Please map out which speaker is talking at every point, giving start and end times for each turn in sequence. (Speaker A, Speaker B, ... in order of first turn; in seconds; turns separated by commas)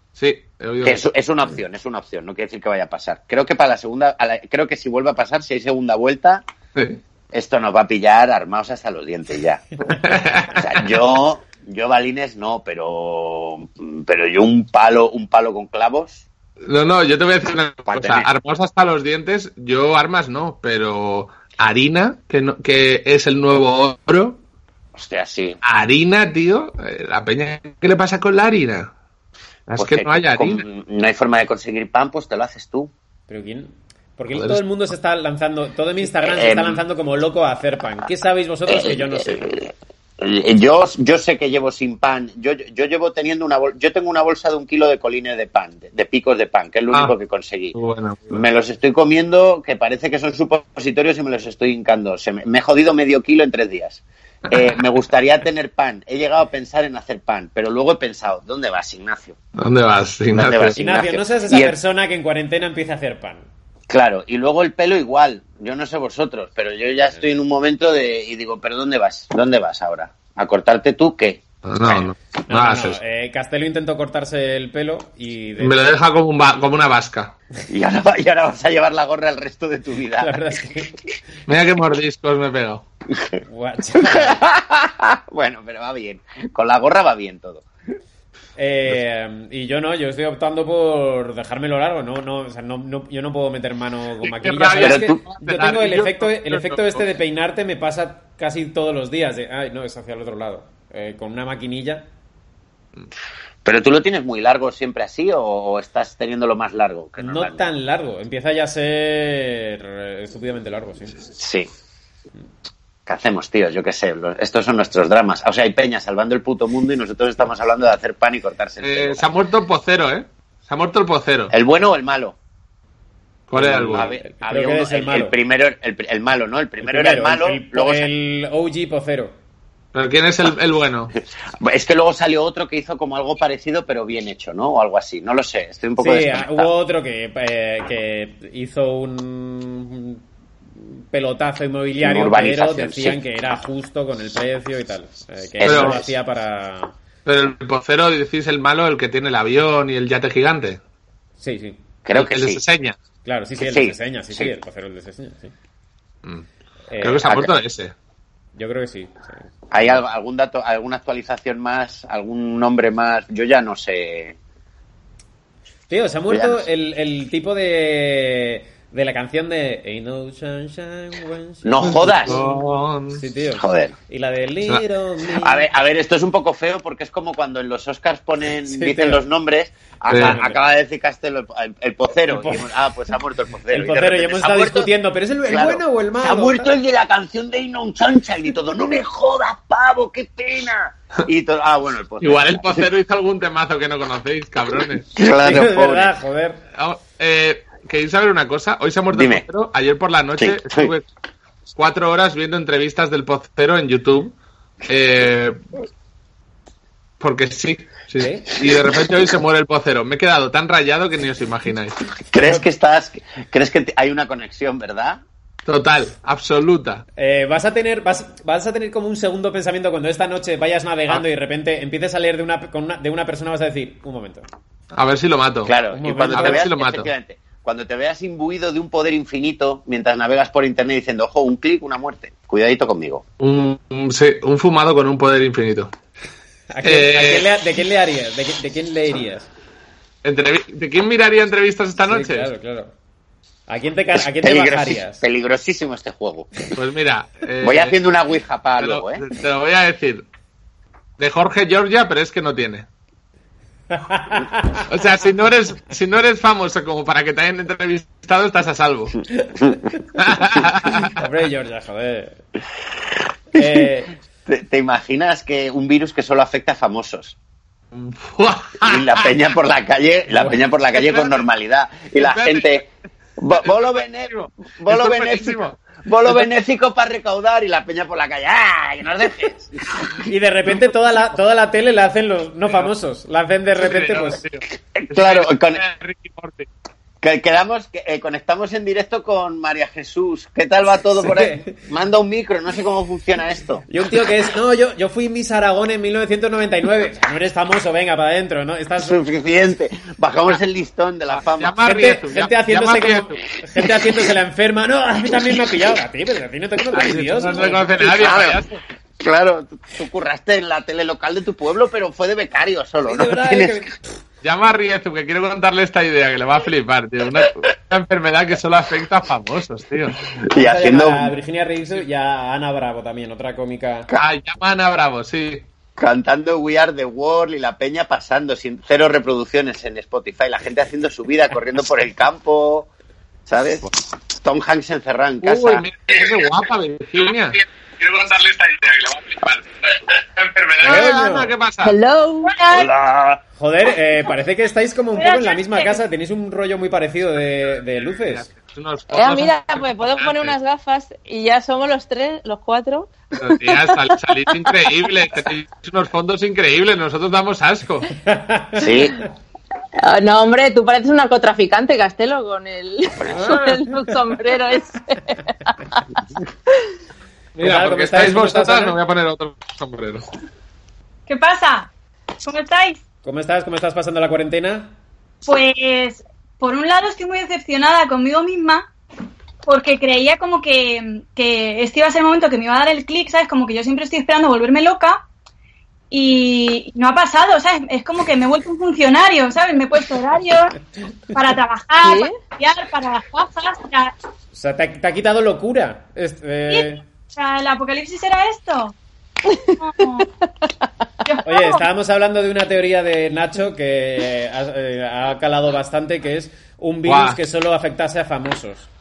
Speaker A: 0.2-1.1, Speaker B: 0.8-6.4, Speaker A: 6.8-7.0, Speaker B: 7.3-9.7, Speaker A: 9.9-10.9, Speaker B: 10.6-16.2, Speaker A: 16.6-24.4, Speaker B: 17.9-18.3, Speaker B: 24.9-25.6, Speaker A: 25.6-28.9, Speaker A: 29.7-30.6, Speaker B: 29.8-32.9, Speaker C: 33.3-39.6, Speaker A: 34.4-34.6, Speaker B: 36.2-36.8, Speaker B: 38.7-47.8, Speaker A: 47.7-48.5, Speaker B: 48.3-59.4, Speaker A: 59.6-60.8, Speaker B: 60.3-61.7, Speaker C: 60.8-63.5, Speaker B: 63.9-72.1, Speaker A: 71.7-73.0, Speaker C: 72.5-76.0, Speaker A: 75.6-77.3, Speaker B: 77.7-80.4, Speaker C: 80.2-80.9, Speaker A: 81.5-82.8, Speaker C: 83.4-84.4, Speaker B: 84.0-87.7, Speaker C: 88.6-102.1, Speaker A: 94.2-97.1, Speaker B: 94.8-95.2, Speaker B: 103.7-107.7, Speaker C: 107.2-111.2, Speaker B: 111.3-111.7, Speaker B: 113.1-119.3, Speaker A: 118.8-121.5, Speaker B: 121.5-122.4, Speaker A: 123.5-124.2, Speaker C: 123.5-125.3, Speaker B: 123.6-128.1, Speaker C: 126.8-129.3, Speaker A: 129.9-131.1, Speaker B: 131.6-136.7, Speaker C: 136.0-140.2, Speaker C: 140.8-146.9, Speaker B: 142.0-143.2, Speaker B: 145.6-146.1, Speaker A: 145.6-146.1, Speaker A: 147.2-150.8, Speaker C: 151.4-151.8, Speaker B: 152.1-152.6, Speaker A: 152.1-153.0, Speaker C: 153.2-155.5, Speaker B: 153.6-154.5, Speaker C: 156.9-157.4, Speaker A: 157.0-157.9, Speaker B: 157.2-157.6, Speaker C: 158.6-159.4, Speaker B: 159.7-164.4, Speaker C: 165.9-172.6, Speaker B: 166.3-166.7, Speaker B: 171.6-172.4, Speaker A: 172.1-173.2, Speaker C: 173.2-175.7, Speaker B: 173.6-173.9, Speaker B: 175.4-184.9, Speaker C: 178.7-179.2, Speaker A: 180.1-180.4, Speaker C: 180.1-180.6, Speaker C: 182.3-182.7, Speaker C: 183.7-186.7, Speaker B: 185.5-192.9, Speaker A: 192.2-195.1, Speaker B: 195.1-196.1, Speaker C: 195.4-196.6, Speaker A: 196.8-201.1, Speaker B: 199.1-199.4, Speaker B: 200.4-200.9, Speaker A: 201.7-204.3, Speaker A: 204.9-205.6, Speaker A: 207.2-212.0, Speaker C: 208.2-208.5, Speaker B: 212.3-215.2, Speaker A: 215.7-217.0, Speaker C: 217.2-224.5, Speaker A: 224.9-225.7, Speaker B: 225.7-233.2, Speaker C: 225.9-226.7, Speaker A: 226.3-227.1, Speaker A: 233.4-235.9, Speaker C: 236.7-239.5, Speaker A: 236.8-237.5, Speaker A: 240.2-242.5, Speaker C: 242.0-242.9, Speaker C: 243.7-245.2, Speaker B: 244.2-246.5, Speaker A: 246.8-248.0, Speaker B: 247.6-249.2, Speaker A: 248.8-250.2, Speaker A: 251.2-252.9, Speaker C: 253.9-254.8, Speaker A: 254.9-259.2, Speaker C: 259.4-260.2, Speaker A: 260.2-261.2, Speaker C: 261.1-262.4, Speaker C: 263.5-264.1, Speaker B: 264.5-267.4, Speaker A: 267.9-269.4, Speaker B: 268.8-279.7, Speaker A: 270.9-271.4, Speaker A: 272.1-272.9, Speaker A: 273.5-276.4, Speaker C: 280.2-284.4, Speaker A: 283.8-286.7, Speaker B: 284.9-285.8, Speaker B: 287.2-293.8, Speaker C: 291.2-291.7, Speaker C: 293.9-299.2, Speaker B: 299.0-301.8, Speaker A: 301.3-303.4, Speaker C: 301.8-308.2, Speaker A: 306.9-308.8, Speaker B: 308.0-308.6, Speaker B: 309.2-313.9, Speaker C: 313.1-314.1, Speaker A: 314.4-320.2, Speaker B: 320.4-321.3, Speaker C: 320.5-324.1, Speaker A: 324.1-325.6, Speaker B: 326.0-332.9, Speaker B: 333.5-335.9, Speaker A: 335.4-342.0, Speaker C: 340.8-341.5, Speaker D: 341.8-342.9, Speaker B: 342.7-343.4, Speaker C: 343.6-348.5, Speaker E: 345.2-346.0, Speaker A: 348.3-350.5, Speaker D: 349.1-354.9, Speaker A: 353.4-358.1, Speaker C: 358.2-359.1, Speaker B: 358.8-359.2, Speaker D: 360.0-366.2, Speaker C: 363.3-364.1, Speaker A: 367.6-370.2, Speaker C: 367.6-369.0, Speaker E: 371.3-371.9, Speaker E: 372.4-373.0, Speaker C: 373.2-374.9, Speaker E: 375.4-378.9, Speaker E: 379.7-385.2, Speaker E: 386.1-390.8, Speaker E: 391.3-394.1, Speaker D: 392.0-392.3, Speaker C: 394.5-397.0, Speaker E: 396.7-399.0, Speaker D: 399.5-399.8, Speaker E: 399.8-400.3, Speaker E: 401.2-401.8, Speaker C: 401.4-408.9, Speaker A: 407.1-407.4